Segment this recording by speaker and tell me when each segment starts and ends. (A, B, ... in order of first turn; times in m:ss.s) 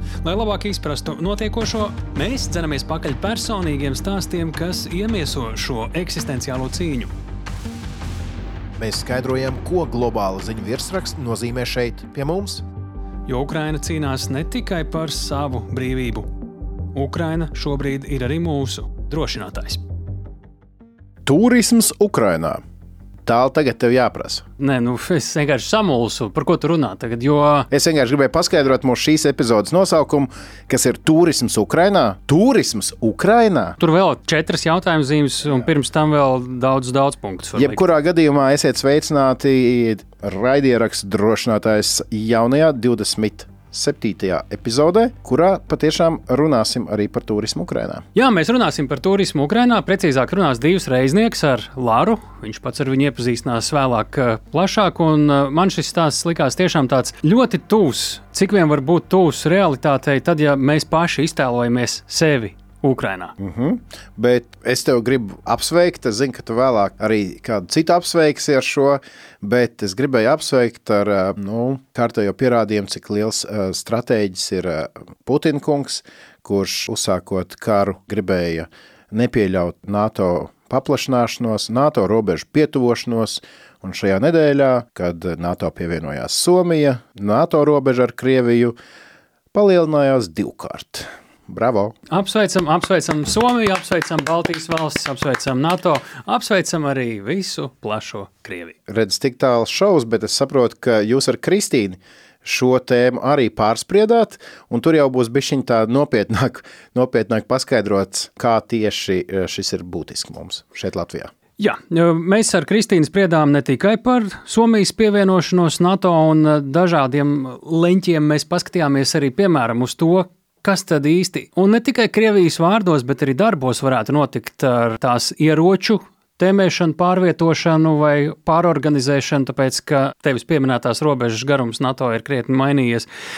0:00.2-0:07.1 A
0:08.8-0:12.6 B
0:13.2-0:16.3 A
0:16.9-0:19.8 A
0:21.2-0:22.6 B
0:23.2-0:24.4 B
0:24.6-0:27.7 A
0:27.7-0:33.8 B
0:33.8-0:37.9 A
0:37.6-0:48.0 B
0:48.1-1:03.3 A
1:03.4-1:28.8 B
1:29.5-1:31.9 B
1:32.1-1:38.7 A
1:38.9-1:51.3 B
1:51.6-2:13.1 A